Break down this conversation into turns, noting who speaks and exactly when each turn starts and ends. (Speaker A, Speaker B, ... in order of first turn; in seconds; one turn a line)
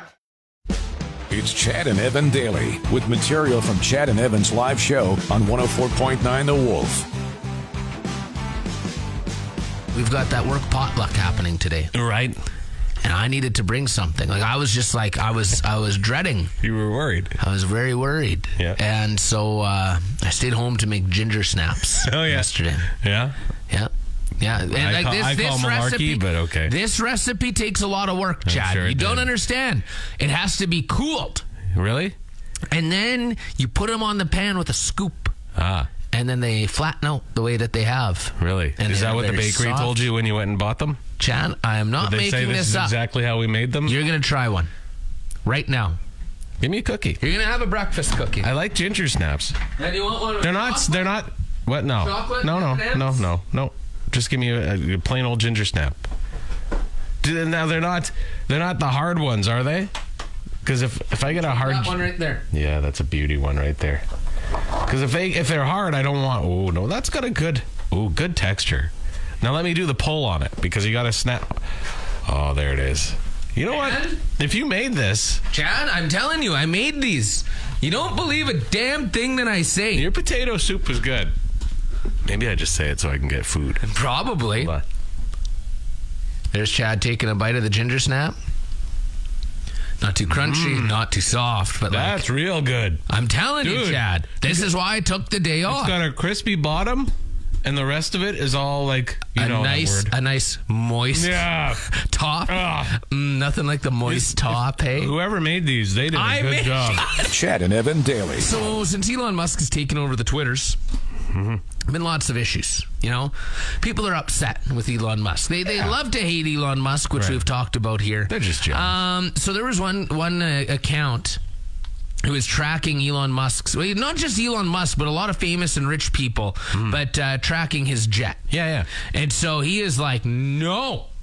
Speaker A: 1.3-7.1
Speaker B: 9.9-11.9
Speaker C: 11.9-12.4
Speaker B: 13.0-16.5
Speaker C: 16.6-17.3
Speaker B: 17.4-22.9
Speaker C: 22.0-22.5
Speaker C: 23.0-23.3
Speaker B: 23.7-31.4
Speaker C: 24.7-26.7
Speaker C: 28.4-29.3
Speaker C: 31.7-32.1
Speaker B: 32.7-35.3
Speaker C: 35.5-35.9
Speaker B: 36.1-40.1
Speaker C: 38.4-41.0
Speaker B: 41.2-43.0
Speaker C: 42.0-44.0
Speaker B: 43.9-44.7
Speaker B: 45.4-46.0
Speaker C: 46.6-47.2
Speaker B: 47.2-48.5
Speaker C: 48.4-49.6
Speaker B: 49.8-51.2
Speaker C: 50.4-56.0
Speaker B: 51.9-53.2
Speaker C: 57.2-59.9
Speaker C: 60.6-64.0
Speaker B: 61.3-62.4
Speaker C: 64.8-71.6
Speaker C: 72.2-75.4
Speaker B: 73.7-74.2
Speaker B: 75.5-80.1
Speaker C: 79.9-81.3
Speaker C: 82.2-83.8
Speaker B: 83.8-84.7
Speaker C: 84.5-84.8
Speaker B: 86.5-88.3
Speaker B: 90.0-92.2
Speaker C: 90.3-90.9
Speaker C: 91.9-93.0
Speaker B: 93.1-96.0
Speaker C: 93.6-94.7
Speaker C: 95.7-97.1
Speaker C: 97.6-100.1
Speaker B: 99.3-105.1
Speaker C: 101.1-101.8
Speaker C: 102.5-102.9
Speaker C: 104.0-107.1
Speaker B: 106.1-107.3
Speaker A: 107.2-108.5
Speaker B: 108.4-110.8
Speaker C: 111.3-111.6
Speaker B: 111.8-121.4
Speaker C: 117.1-117.4
Speaker C: 118.3-119.0
Speaker B: 122.2-128.4
Speaker C: 128.5-128.9
Speaker B: 128.9-131.1